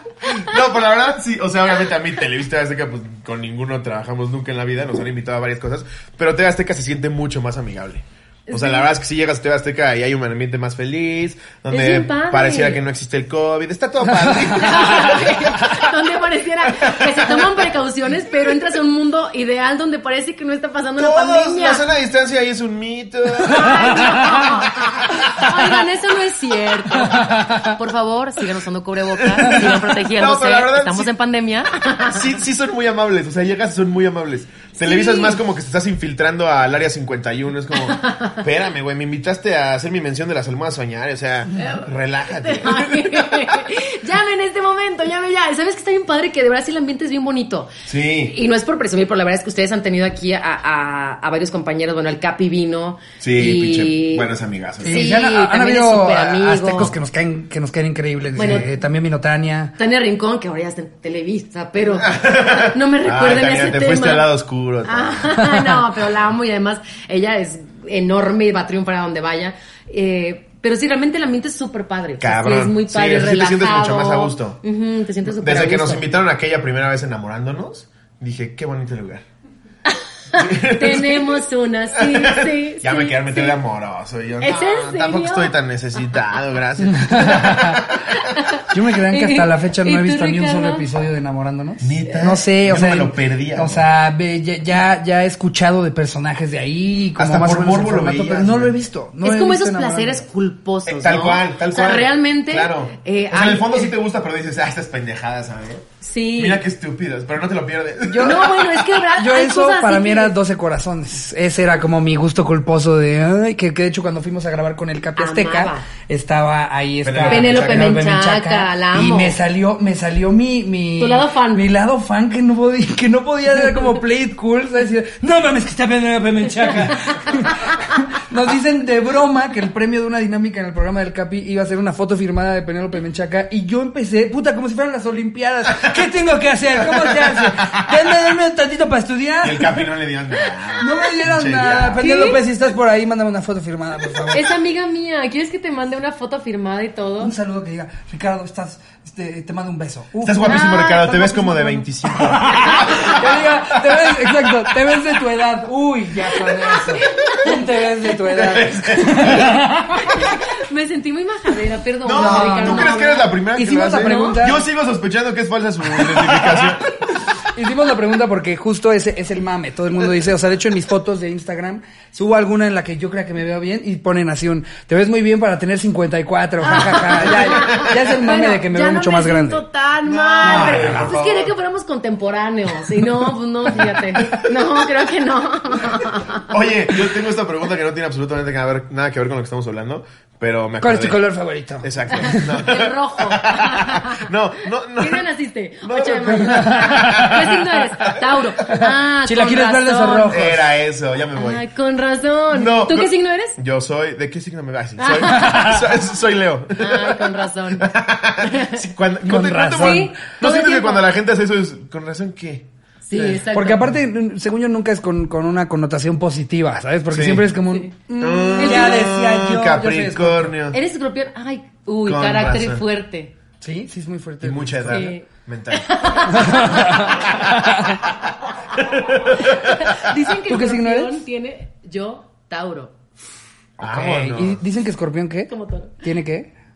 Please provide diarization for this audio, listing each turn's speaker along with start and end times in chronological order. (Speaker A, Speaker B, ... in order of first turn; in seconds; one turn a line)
Speaker A: 0.2-15.7
Speaker B: 8.5-8.9
Speaker B: 11.7-12.8
Speaker B: 14.4-21.8
Speaker A: 16.8-17.5
Speaker A: 21.0-25.5
Speaker B: 23.4-32.3
Speaker C: 23.6-24.5
Speaker C: 27.0-27.8
Speaker A: 29.2-31.1
Speaker A: 32.0-43.6
Speaker B: 34.8-35.4
Speaker B: 37.7-38.4
Speaker B: 41.6-47.7
Speaker A: 47.9-48.3
Speaker B: 48.3-54.3
Speaker A: 53.2-55.1
Speaker C: 54.8-59.7
Speaker B: 54.8-56.9
Speaker B: 58.4-58.6
Speaker A: 58.4-58.6
Speaker B: 59.8-64.2
Speaker A: 62.0-65.5
Speaker B: 64.8-76.1
Speaker A: 72.2-74.6
Speaker A: 75.2-79.2
Speaker B: 79.9-83.6
Speaker A: 80.3-81.4
Speaker A: 81.9-88.2
Speaker B: 84.4-85.5
Speaker C: 86.8-87.9
Speaker B: 88.1-90.8
Speaker C: 88.7-100.2
Speaker A: 91.8-93.8
Speaker A: 97.2-98.7
Speaker B: 99.2-103.9
Speaker A: 100.8-105.8
Speaker B: 106.0-106.6
Speaker A: 106.4-108.8
Speaker C: 108.1-108.6
Speaker B: 108.2-110.3
Speaker C: 109.1-139.9
Speaker B: 115.2-115.8
Speaker A: 117.0-118.0
Speaker B: 117.2-119.4
Speaker B: 121.0-121.6
Speaker A: 136.8-137.9
Speaker A: 139.4-142.0
Speaker C: 140.8-144.5
Speaker B: 142.0-142.4
Speaker B: 144.3-147.3
Speaker C: 147.2-150.8
Speaker A: 150.2-154.3
Speaker B: 150.4-151.8
Speaker C: 152.2-160.3
Speaker B: 152.5-153.2
Speaker B: 156.6-157.6
Speaker A: 158.3-159.6
Speaker B: 160.0-163.3
Speaker A: 162.0-166.9
Speaker C: 162.1-164.6
Speaker B: 163.9-164.5
Speaker C: 167.5-179.6
Speaker B: 176.6-186.5
Speaker A: 177.3-177.9
Speaker A: 180.0-181.5
Speaker C: 180.4-181.1
Speaker A: 183.7-184.6
Speaker A: 186.4-191.2
Speaker C: 190.8-192.5
Speaker A: 191.8-195.3
Speaker B: 192.1-194.3
Speaker B: 195.0-200.4
Speaker A: 195.8-198.2
Speaker C: 196.4-197.4
Speaker C: 198.7-200.6
Speaker A: 200.3-201.6
Speaker B: 201.3-203.6
Speaker A: 202.5-213.4
Speaker B: 205.0-205.8
Speaker C: 205.3-205.8
Speaker B: 206.8-207.9
Speaker B: 208.4-208.8
Speaker C: 209.2-210.1
Speaker B: 209.7-211.1
Speaker B: 213.1-213.9
Speaker C: 213.5-220.5
Speaker A: 217.1-217.5
Speaker A: 218.2-220.8
Speaker B: 218.5-219.1
Speaker B: 220.7-223.3
Speaker A: 222.0-222.8
Speaker C: 223.6-225.1
Speaker A: 224.4-228.1
Speaker B: 224.9-227.3
Speaker C: 226.3-228.0
Speaker A: 228.7-229.9
Speaker B: 229.3-232.9
Speaker C: 230.5-231.2
Speaker A: 233.8-234.6
Speaker C: 233.8-235.5
Speaker B: 235.5-236.0
Speaker C: 236.0-236.5